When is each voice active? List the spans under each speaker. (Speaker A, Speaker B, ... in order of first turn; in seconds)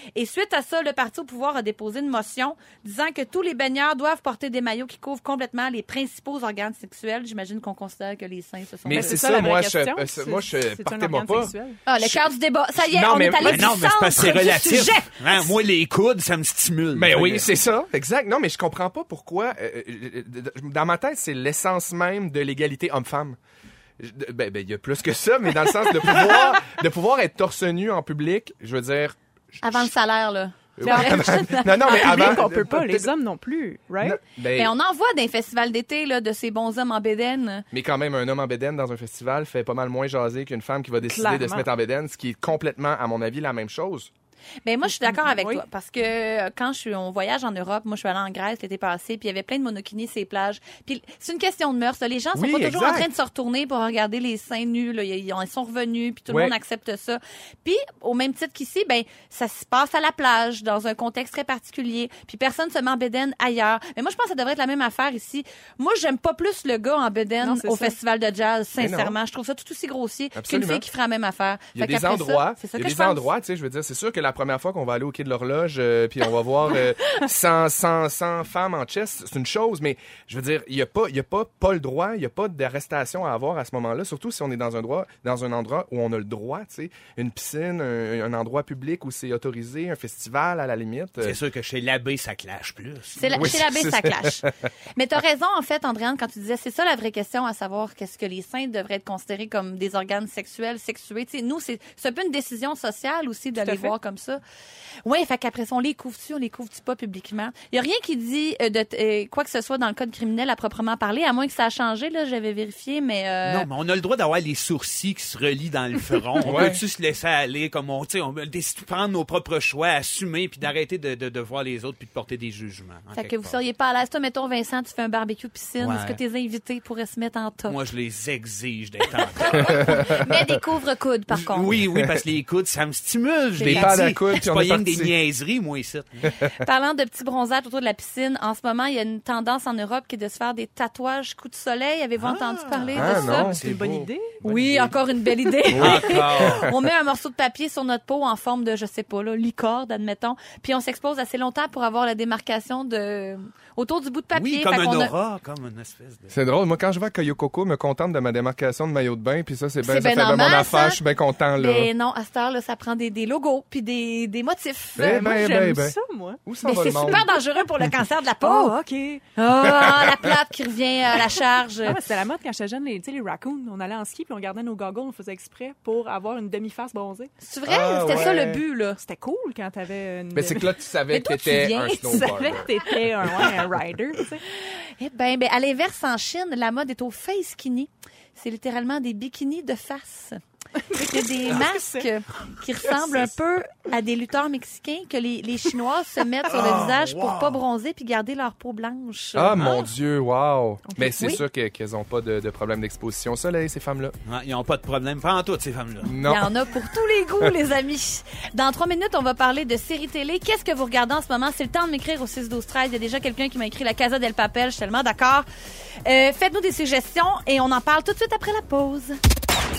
Speaker A: 0.1-9.2, 11.8-15.5, 29.6-32.4, 34.5-37.6, 44.6-73.3, 93.2-104.4, 105.0-113.7, 123.1-127.8, 129.2-131.7, 133.6-133.9, 136.6-143.5, 144.4-155.1, 159.8-161.0, 161.6-165.4, 166.6-168.8, 169.3-172.0, 177.4-179.0, 181.1-182.3, 185.0-190.4, 190.9-199.8, 206.2-215.4, 216.0-219.2
Speaker B: 8.8-11.5, 12.8-13.8, 16.9-23.4, 24.0-29.9, 30.8-33.1, 34.0-34.7, 37.7-44.1, 52.3-53.1, 56.3-56.5, 68.8-69.2, 70.3-70.8, 71.7-91.4, 93.3-94.5, 116.4-116.8, 129.6-130.4, 131.8-132.2, 133.6-135.1, 142.9-143.6, 145.7-146.7, 156.3-161.9, 164.9-167.2, 169.7-170.0, 177.7-178.6, 180.3-182.7, 199.3-204.1, 206.0-206.5
Speaker C: 8.9-11.8, 30.8-34.2, 41.0-41.7, 45.0-45.6, 67.4-68.0, 103.5-103.9, 143.2-145.6, 165.0-167.4, 168.4-169.2, 171.8-177.3, 179.0-180.7, 182.0-184.4, 190.8-192.1, 200.9-201.4
Speaker D: 13.4-17.5, 91.2-93.5, 113.4-123.6, 125.8-126.2, 127.7-129.9, 131.3-136.2, 142.2-144.9, 145.7-146.7, 154.3-156.3, 196.5-197.6, 199.6-199.8, 204.2-206.1